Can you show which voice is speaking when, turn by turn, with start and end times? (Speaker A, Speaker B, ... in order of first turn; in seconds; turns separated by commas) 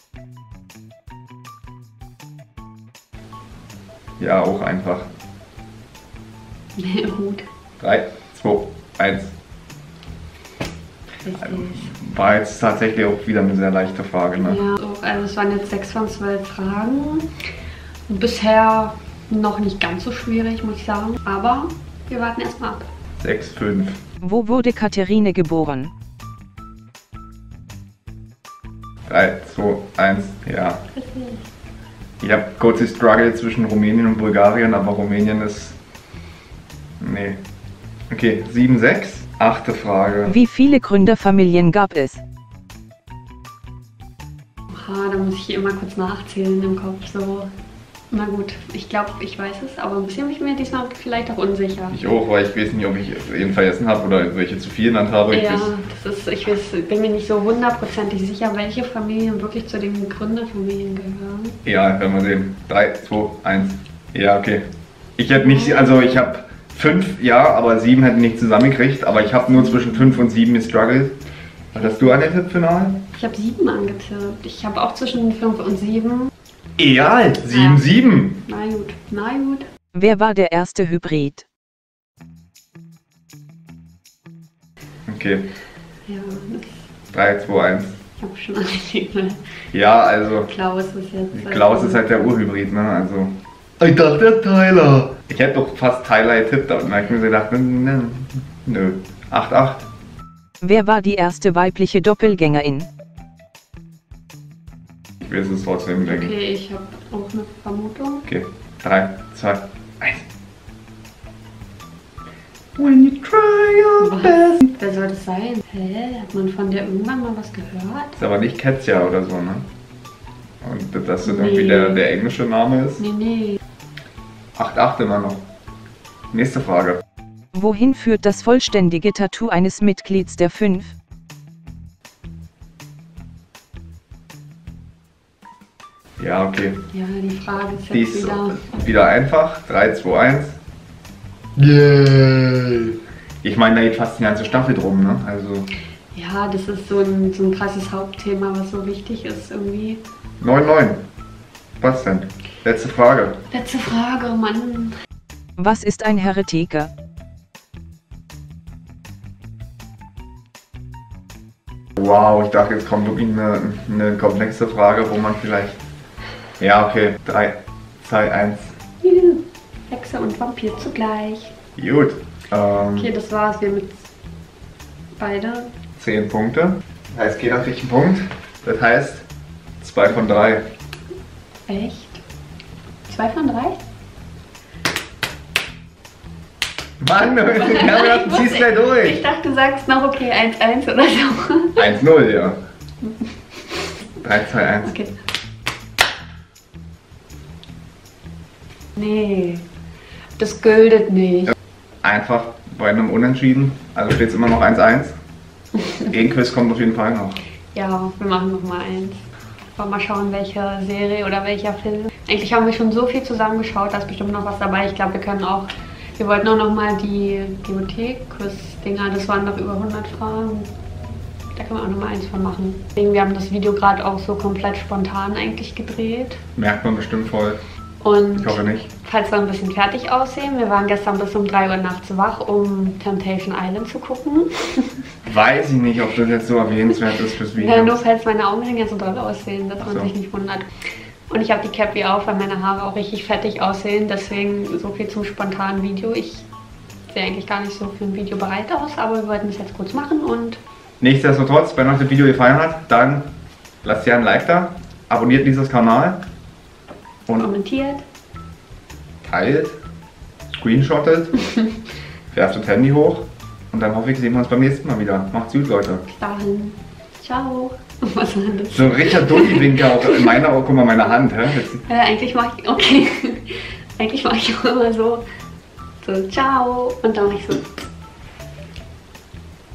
Speaker A: 4.2-5.1, Speaker B: 6.8-7.4, Speaker A: 7.8-9.3, Speaker B: 11.2-11.9, Speaker A: 11.4-14.6, Speaker B: 14.4-17.3, Speaker B: 18.1-22.9, Speaker A: 23.2-24.0, Speaker C: 24.2-25.9, Speaker A: 29.1-30.8, Speaker B: 30.9-31.4, Speaker A: 32.2-35.8, Speaker A: 37.0-37.4, Speaker A: 38.1-40.4, Speaker C: 40.3-42.2, Speaker B: 44.7-47.5, Speaker B: 48.1-52.0, Speaker A: 51.9-55.7, Speaker B: 55.3-61.6, Speaker A: 61.6-71.2, Speaker B: 65.4-66.2, Speaker B: 69.4-70.2, Speaker A: 71.7-73.0, Speaker B: 71.7-72.2, Speaker B: 73.1-76.3, Speaker A: 76.8-78.4, Speaker B: 77.5-77.8, Speaker B: 78.4-79.7, Speaker C: 79.9-81.4, Speaker A: 85.1-85.5, Speaker B: 86.1-86.9, Speaker A: 87.1-88.0, Speaker B: 88.2-89.4, Speaker A: 89.7-90.5, Speaker B: 90.5-92.3, Speaker A: 91.3-99.8, Speaker C: 100.6-102.9, Speaker A: 105.2-106.3, Speaker B: 106.0-108.3, Speaker A: 108.3-110.2, Speaker A: 112.8-114.7, Speaker B: 114.0-118.2, Speaker A: 118.2-119.7, Speaker A: 120.6-123.0, Speaker B: 121.2-122.0, Speaker B: 123.0-123.6, Speaker A: 124.5-125.4, Speaker A: 126.3-127.0, Speaker C: 127.5-130.9, Speaker A: 136.2-136.8, Speaker B: 136.9-138.7, Speaker A: 137.9-140.6, Speaker A: 141.6-145.7, Speaker B: 146.1-150.0, Speaker A: 150.4-151.1, Speaker A: 151.8-153.4, Speaker B: 153.5-154.9, Speaker C: 155.6-156.9, Speaker A: 162.0-165.8, Speaker A: 166.6-168.7, Speaker B: 169.0-171.5, Speaker A: 171.8-173.1, Speaker B: 172.9-174.1, Speaker B: 175.2-175.7, Speaker A: 176.0-179.2, Speaker A: 179.8-180.7, Speaker B: 181.7-182.2, Speaker B: 183.1-183.8, Speaker A: 187.0-189.2, Speaker B: 187.4-191.9, Speaker A: 191.8-192.6, Speaker B: 193.0-193.3, Speaker A: 194.2-194.9, Speaker B: 194.8-195.1, Speaker B: 199.0-199.7, Speaker B: 200.4-201.5, Speaker A: 202.0-205.2, Speaker A: 206.1-207.4, Speaker B: 207.7-209.2, Speaker B: 209.8-220.7, Speaker B: 221.5-226.4, Speaker A: 226.6-227.6, Speaker B: 228.0-234.9, Speaker A: 228.4-228.9, Speaker A: 235.2-238.0, Speaker B: 237.5-240.7, Speaker A: 239.8-240.1, Speaker B: 241.3-246.5, Speaker B: 247.1-250.6, Speaker A: 251.0-256.2, Speaker B: 257.3-258.0, Speaker A: 259.2-259.8, Speaker A: 260.5-261.3, Speaker A: 262.3-266.0, Speaker B: 266.0-270.4, Speaker A: 268.7-271.8, Speaker B: 271.8-275.2, Speaker B: 276.0-277.7